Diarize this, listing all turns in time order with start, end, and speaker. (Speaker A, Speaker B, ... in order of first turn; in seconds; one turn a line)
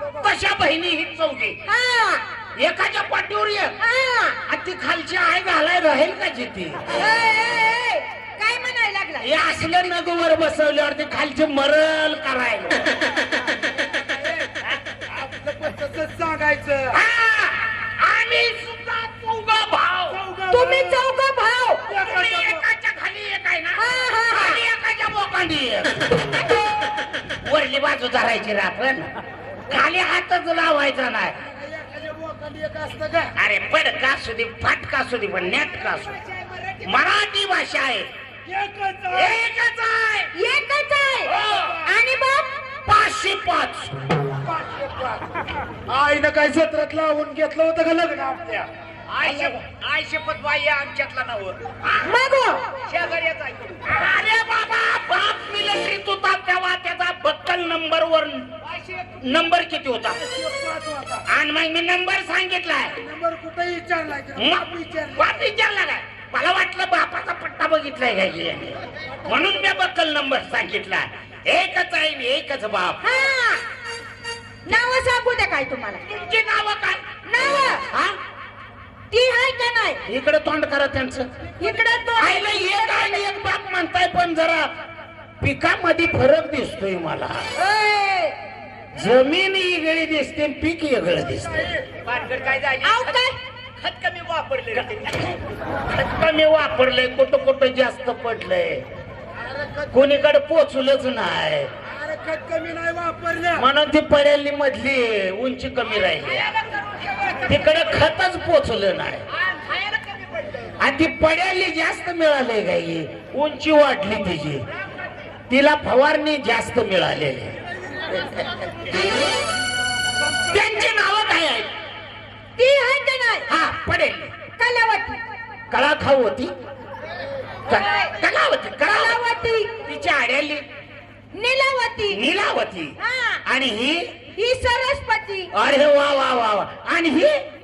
Speaker A: 0.2-1.6
Speaker B: 1.6-2.2
Speaker A: 2.6-3.8
Speaker B: 3.8-4.4
Speaker A: 4.5-6.8
Speaker B: 6.9-9.3
Speaker A: 9.2-12.9
Speaker C: 15.1-17.0
Speaker A: 16.9-20.2
Speaker C: 20.1-21.0
Speaker B: 20.5-21.8
Speaker C: 21.9-22.6
Speaker A: 21.9-26.2
Speaker B: 23.8-24.6
Speaker A: 27.4-29.1
Speaker A: 29.7-31.4
Speaker C: 31.4-33.3
Speaker A: 33.4-36.2
Speaker B: 36.2-36.8
Speaker A: 36.8-38.1
Speaker C: 38.5-39.4
Speaker A: 39.1-40.3
Speaker B: 40.3-42.5
Speaker A: 41.3-41.8
Speaker A: 42.9-43.9
Speaker C: 44.4-45.3
Speaker C: 45.9-48.7
Speaker D: 49.1-51.6
Speaker B: 52.0-52.6
Speaker D: 52.8-53.8
Speaker A: 53.9-58.5
Speaker D: 58.6-59.1
Speaker A: 59.2-60.2
Speaker C: 60.2-61.2
Speaker A: 61.3-63.0
Speaker C: 63.0-65.4
Speaker A: 64.4-73.0
Speaker B: 73.0-73.6
Speaker B: 74.7-76.0
Speaker A: 76.0-77.2
Speaker B: 77.2-77.9
Speaker B: 79.1-80.0
Speaker A: 80.0-81.3
Speaker B: 81.6-83.2
Speaker A: 82.2-84.7
Speaker A: 85.4-87.5
Speaker B: 87.5-88.3
Speaker A: 88.9-91.7
Speaker D: 92.0-93.2
Speaker B: 92.8-93.4
Speaker D: 93.8-95.4
Speaker A: 95.9-98.8
Speaker C: 99.4-99.9
Speaker A: 99.9-101.7
Speaker C: 101.8-103.6
Speaker A: 103.5-106.5
Speaker D: 105.9-108.0
Speaker A: 107.4-109.3
Speaker D: 109.3-110.7
Speaker A: 110.8-114.6
Speaker D: 114.8-115.1
Speaker A: 115.5-117.6
Speaker A: 118.1-118.4
Speaker A: 120.5-121.7
Speaker B: 122.6-123.5
Speaker A: 123.5-124.3
Speaker B: 124.6-125.2
Speaker A: 125.7-126.5
Speaker A: 127.7-129.2
Speaker B: 127.7-128.1
Speaker B: 128.9-129.7
Speaker A: 129.8-130.6
Speaker B: 131.3-132.2
Speaker A: 132.1-134.1
Speaker B: 133.0-133.4
Speaker B: 134.3-135.5
Speaker A: 135.5-137.4